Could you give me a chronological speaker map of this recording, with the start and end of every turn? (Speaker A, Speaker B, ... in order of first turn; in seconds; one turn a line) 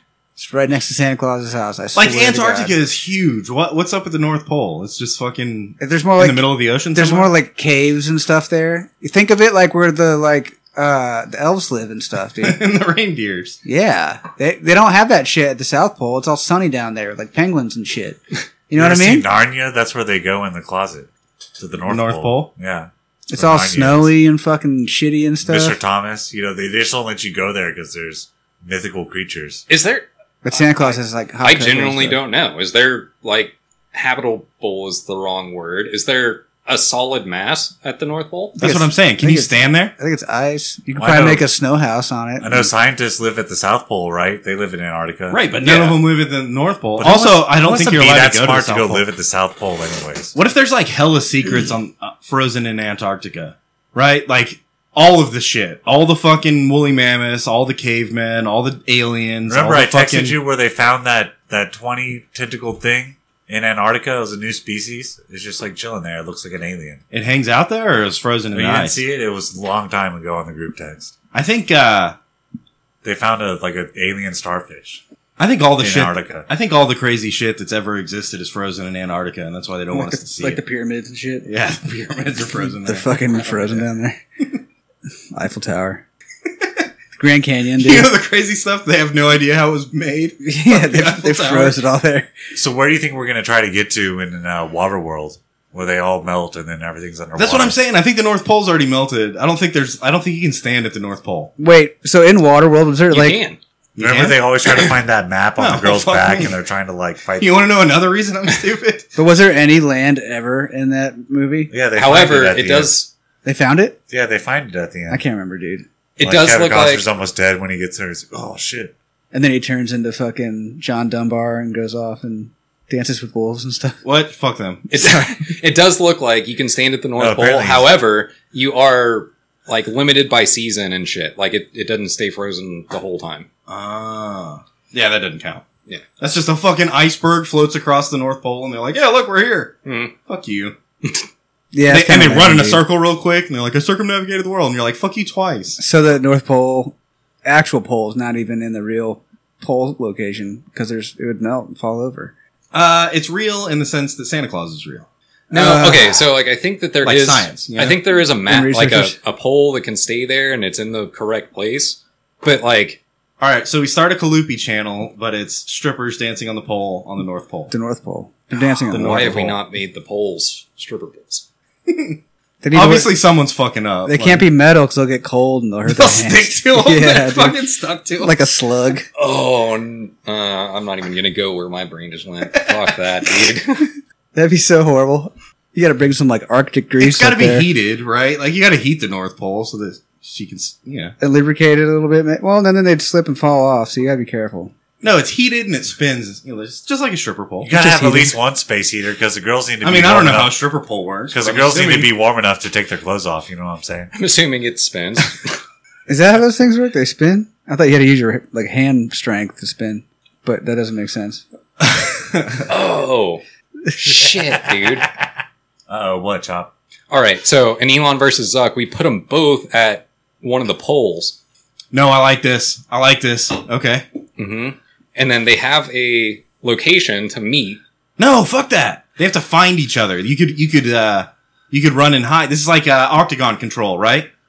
Speaker A: 0.4-2.8
Speaker B: 1.9-7.3
Speaker A: 5.8-12.6
Speaker B: 12.4-13.6
Speaker A: 13.6-19.2
Speaker C: 18.8-24.1
Speaker B: 21.9-22.5
Speaker A: 23.3-25.8
Speaker C: 25.4-29.6
Speaker D: 29.7-38.6
Speaker A: 30.4-32.2
Speaker A: 38.6-42.7
Speaker B: 38.6-39.9
Speaker C: 41.0-41.5
Speaker C: 42.4-45.4
Speaker B: 45.3-49.0
Speaker D: 45.6-46.0
Speaker C: 47.0-50.3
Speaker B: 50.3-60.4
Speaker C: 59.5-67.0
Speaker B: 67.1-69.0
Speaker C: 68.5-71.1
Speaker B: 71.3-72.2
Speaker C: 73.0-75.0
Speaker B: 75.4-80.6
Speaker C: 75.8-76.5
Speaker A: 79.9-81.5
Speaker B: 81.4-83.8
Speaker A: 82.8-84.2
Speaker A: 85.3-86.0
Speaker A: 87.2-88.1
Speaker B: 87.8-91.8
Speaker A: 90.4-92.3
Speaker C: 92.5-97.8
Speaker B: 97.3-101.5
Speaker A: 101.6-103.4
Speaker D: 103.1-103.6
Speaker B: 104.0-104.9
Speaker C: 104.0-107.6
Speaker B: 105.6-106.5
Speaker B: 107.4-109.1
Speaker A: 109.2-111.7
Speaker C: 111.7-113.0
Speaker D: 111.9-113.1
Speaker A: 113.4-114.0
Speaker C: 114.1-115.2
Speaker A: 115.1-115.8
Speaker D: 116.2-117.0
Speaker C: 116.2-118.9
Speaker A: 119.3-124.0
Speaker B: 124.0-125.2
Speaker D: 124.9-133.5
Speaker A: 125.0-125.2
Speaker C: 127.2-127.9
Speaker B: 133.7-135.6
Speaker B: 136.2-140.8
Speaker D: 139.8-140.1
Speaker A: 141.7-142.8
Speaker B: 141.9-145.8
Speaker A: 145.8-152.3
Speaker B: 152.7-155.1
Speaker A: 155.5-156.2
Speaker D: 155.5-163.0
Speaker B: 157.0-158.0
Speaker A: 158.4-159.2
Speaker B: 163.4-167.7
Speaker A: 167.7-169.4
Speaker B: 168.9-169.6
Speaker D: 168.9-171.4
Speaker B: 171.9-172.2
Speaker A: 172.6-173.1
Speaker B: 172.7-174.5
Speaker A: 174.1-177.6
Speaker B: 175.9-178.3
Speaker A: 178.2-179.1
Speaker D: 179.2-183.9
Speaker A: 184.3-187.7
Speaker B: 187.0-191.1
Speaker A: 191.2-194.7
Speaker B: 195.0-197.7
Speaker C: 197.6-200.5
Speaker A: 197.7-198.4
Speaker B: 199.8-202.1
Speaker C: 201.3-204.1
Speaker D: 204.1-205.6
Speaker A: 206.1-211.4
Speaker B: 211.8-212.6
Speaker D: 212.7-213.4
Speaker D: 214.0-215.1
Speaker C: 214.7-215.1
Speaker C: 215.9-216.7
Speaker D: 217.1-221.4
Speaker B: 221.9-224.0
Speaker D: 224.4-227.8
Speaker B: 228.2-234.3